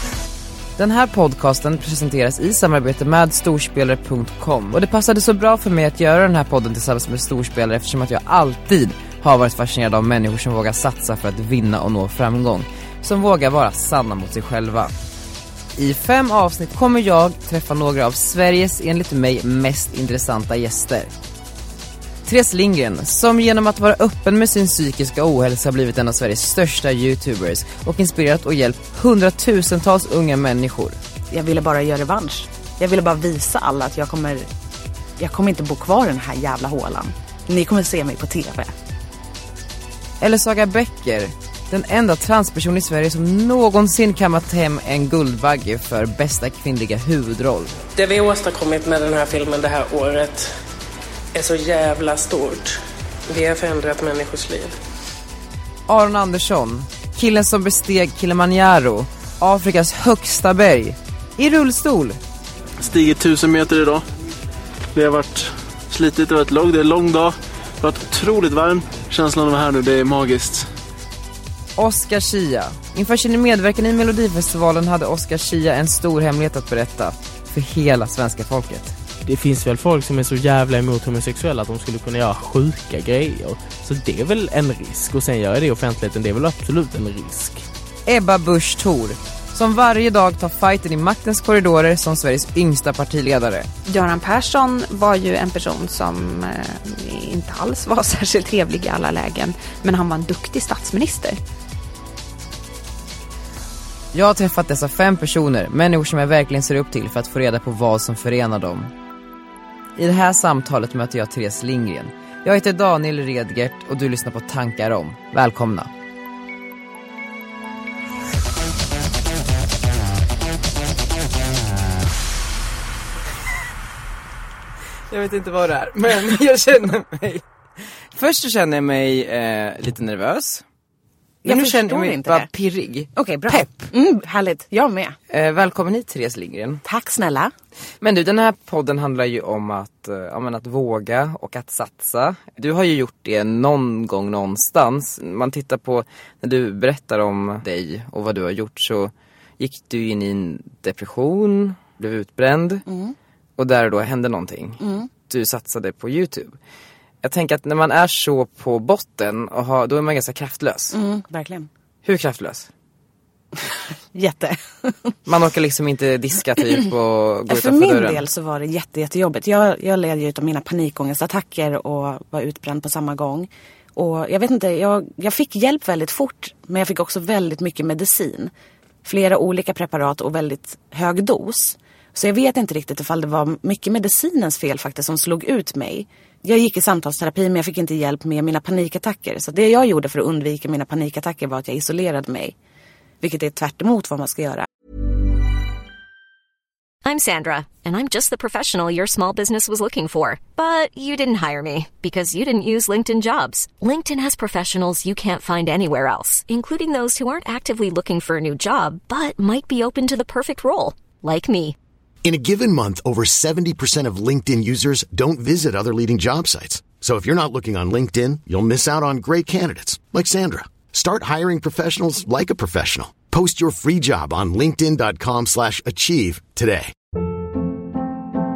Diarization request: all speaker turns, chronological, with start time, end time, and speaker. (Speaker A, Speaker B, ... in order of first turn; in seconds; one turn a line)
Speaker A: 0.8-14.9
Speaker A: 15.8-21.1
Speaker A: 22.2-31.0
Speaker B: 31.3-34.5
Speaker B: 35.2-38.7
Speaker A: 40.2-47.8
Speaker C: 47.9-50.5
Speaker C: 51.3-52.8
Speaker C: 53.3-54.7
Speaker A: 55.9-62.2
Speaker D: 62.8-64.0
Speaker D: 64.9-70.7
Speaker A: 71.8-79.0
Speaker E: 79.2-87.6
Speaker A: 88.1-93.7
Speaker F: 93.8-101.4
Speaker A: 104.1-108.9
Speaker A: 110.0-115.9
Speaker A: 125.1-127.4
Speaker A: 128.1-130.6
Speaker B: 131.4-132.5
Speaker A: 131.5-133.9
Speaker B: 133.1-135.2
Speaker A: 135.3-136.8
Speaker B: 136.8-137.5
Speaker A: 138.0-152.8
Speaker B: 152.9-153.2
Speaker A: 153.6-156.6
Speaker B: 154.8-155.1
Speaker A: 157.2-160.9
Speaker B: 160.9-161.7
Speaker A: 162.0-162.7
Speaker B: 163.6-165.1
Speaker A: 165.2-168.2
Speaker B: 167.5-178.5
Speaker B: 179.0-192.5
Speaker B: 193.2-194.7
Speaker G: 197.0-211.8
Speaker H: 212.2-226.9